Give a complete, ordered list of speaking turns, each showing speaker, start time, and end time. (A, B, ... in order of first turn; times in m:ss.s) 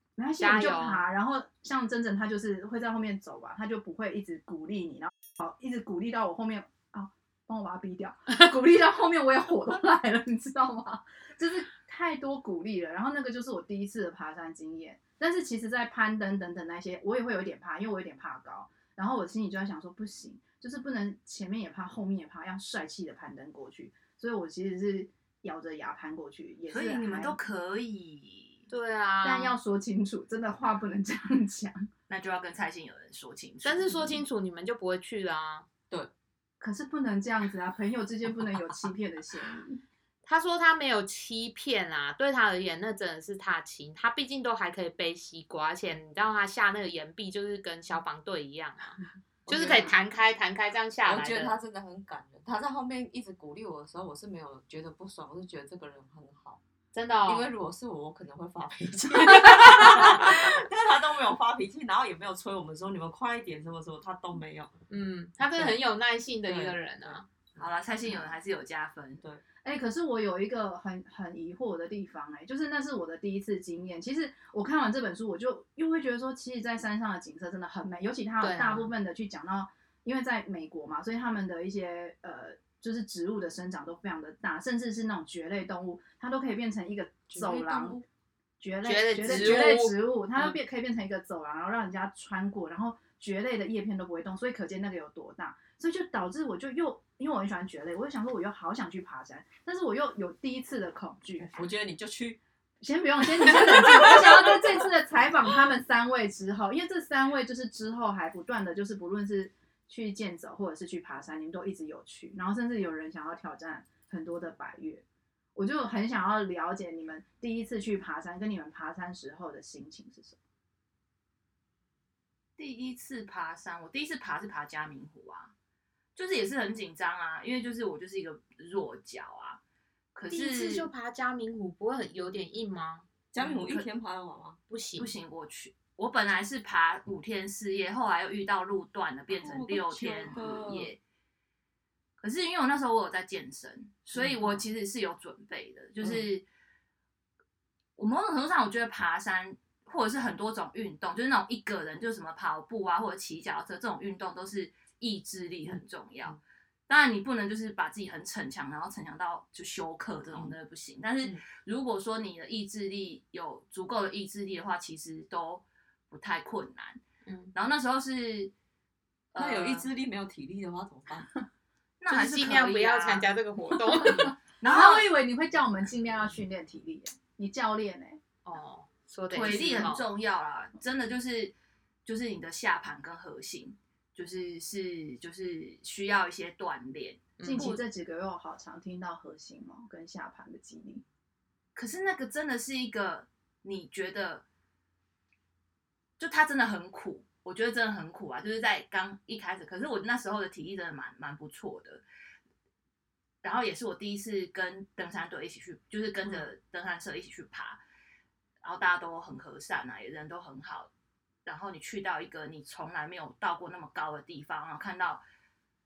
0:00.2-0:27.4 A
0:00.4-0:01.0 B
0:26.7-0:28.6 C
0:28.7-0:29.5 B
0:29.2-0:31.9 A
0:32.1-0:34.2 C
0:33.6-0:35.6 B
0:36.6-0:39.8 A
0:40.2-0:51.6 B
0:49.5-0:50.0 D
0:51.1-0:56.6 D
0:56.9-0:57.5 B
0:57.2-1:04.7 D
0:59.2-1:00.3 B
1:04.9-1:07.2 B
1:06.4-1:07.6 D
1:07.6-1:09.2 C
1:09.6-1:28.0 A
1:18.4-1:18.9 B
1:27.3-1:28.0 D
1:28.6-1:41.5 A
1:28.8-1:30.0 B
1:29.3-1:29.6 D
1:41.4-1:42.4 D
1:42.8-1:55.0 A
1:43.4-1:44.8 D
1:55.5-2:00.4 A
2:02.6-2:05.5 C
2:06.1-2:09.6 C
2:10.1-2:10.9 C
2:10.3-2:13.1 B
2:13.3-2:14.6 D
2:13.4-2:13.9 C
2:14.7-2:15.1 B
2:15.0-2:21.0 C
2:19.3-2:20.9 D
2:22.2-2:26.4 C
2:24.2-2:24.6 D
2:28.0-2:36.4 C
2:35.7-2:36.4 D
2:36.9-2:47.0 C
2:47.2-2:47.5 B
2:47.5-2:48.5 C
2:49.3-2:49.9 C
2:49.4-2:51.3 D
2:52.0-2:53.3 C
2:52.1-2:54.4 B
2:53.9-2:58.2 A
2:54.6-2:55.1 C
2:58.4-3:00.0 B
2:59.3-3:01.5 C
3:02.0-3:07.8 C
3:07.4-3:07.8 B
3:07.4-3:11.0 A
3:11.7-3:14.4 C
3:16.2-3:22.0 C
3:23.4-3:27.8 C
3:28.6-3:30.9 C
3:31.4-3:35.2 C